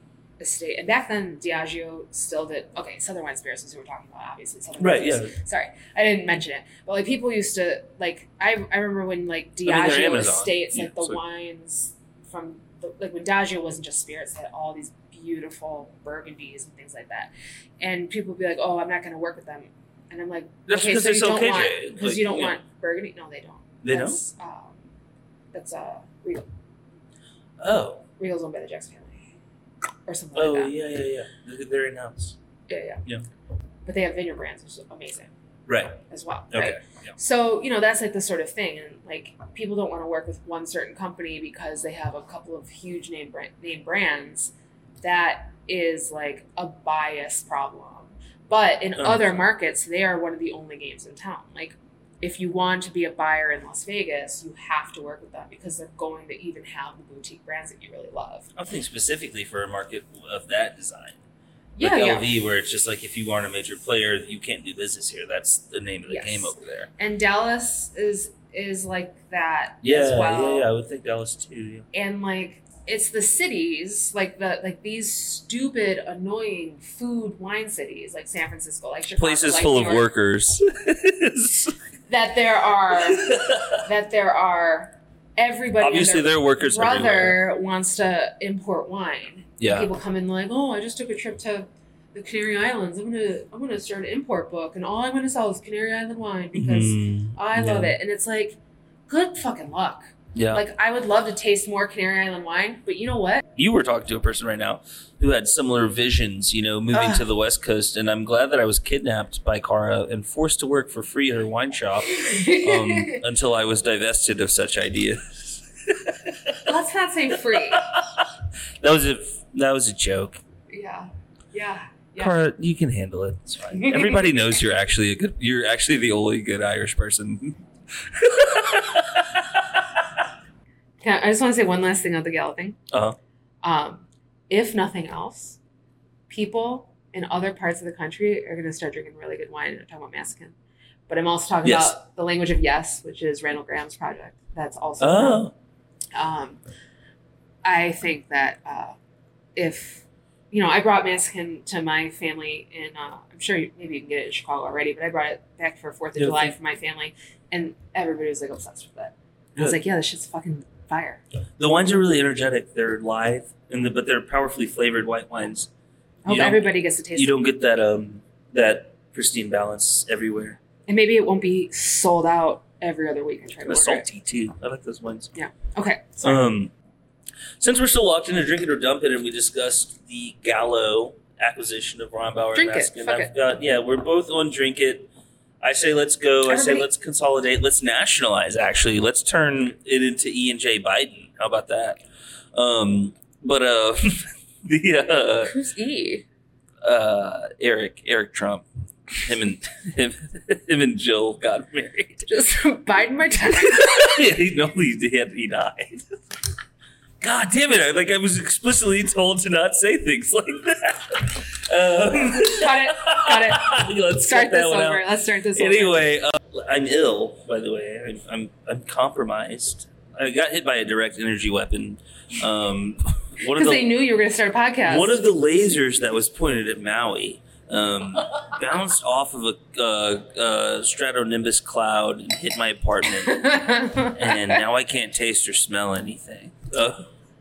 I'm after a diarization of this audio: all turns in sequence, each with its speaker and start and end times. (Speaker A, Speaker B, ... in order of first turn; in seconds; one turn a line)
Speaker A: 0.4-17.3
Speaker B: 4.8-5.3
Speaker B: 9.6-11.2
Speaker A: 17.8-24.8
Speaker B: 20.7-22.6
Speaker B: 23.8-24.2
Speaker A: 25.5-26.4
Speaker B: 27.6-28.0
Speaker A: 28.2-29.2
Speaker A: 30.1-30.7
Speaker B: 30.4-32.4
Speaker A: 32.7-33.0
Speaker A: 33.9-35.3
Speaker B: 35.7-37.1
Speaker A: 36.1-58.5
Speaker B: 49.0-49.4
Speaker B: 58.5-61.2
Speaker A: 61.8-62.4
Speaker B: 61.8-66.9
Speaker A: 66.1-70.7
Speaker B: 69.8-71.9
Speaker A: 71.9-80.1
Speaker B: 79.2-81.8
Speaker A: 82.1-98.6
Speaker B: 83.1-83.8
Speaker B: 85.8-87.4
Speaker B: 89.6-89.9
Speaker B: 96.5-97.9
Speaker A: 99.1-103.4
Speaker B: 100.3-100.6
Speaker B: 103.6-116.7
Speaker A: 106.9-107.2
Speaker A: 112.1-113.2
Speaker A: 116.6-117.9
Speaker B: 117.5-118.3
Speaker B: 118.8-120.4
Speaker A: 120.7-122.4
Speaker B: 122.2-130.1
Speaker A: 123.7-124.3
Speaker A: 131.0-132.8
Speaker B: 132.9-133.2
Speaker A: 133.6-135.6
Speaker A: 136.3-140.6
Speaker A: 141.1-145.5
Speaker B: 141.6-142.0
Speaker B: 145.0-145.5
Speaker A: 146.1-146.6
Speaker A: 147.6-149.0
Speaker A: 149.6-161.2
Speaker B: 156.2-156.5
Speaker B: 161.6-165.7
Speaker A: 166.2-167.3
Speaker B: 166.2-170.6
Speaker A: 170.9-174.1
Speaker B: 173.6-175.3
Speaker A: 175.3-176.4
Speaker B: 176.2-176.7
Speaker B: 177.6-185.1
Speaker A: 182.5-183.3
Speaker B: 185.6-192.0
Speaker A: 186.5-186.9
Speaker B: 192.5-195.5
Speaker A: 195.5-196.2
Speaker B: 196.8-198.7
Speaker B: 199.2-202.3
Speaker A: 202.3-204.2
Speaker B: 203.6-206.1
Speaker B: 207.2-223.9
Speaker A: 212.3-216.1
Speaker A: 223.5-225.2
Speaker B: 224.8-237.1
Speaker A: 233.2-234.6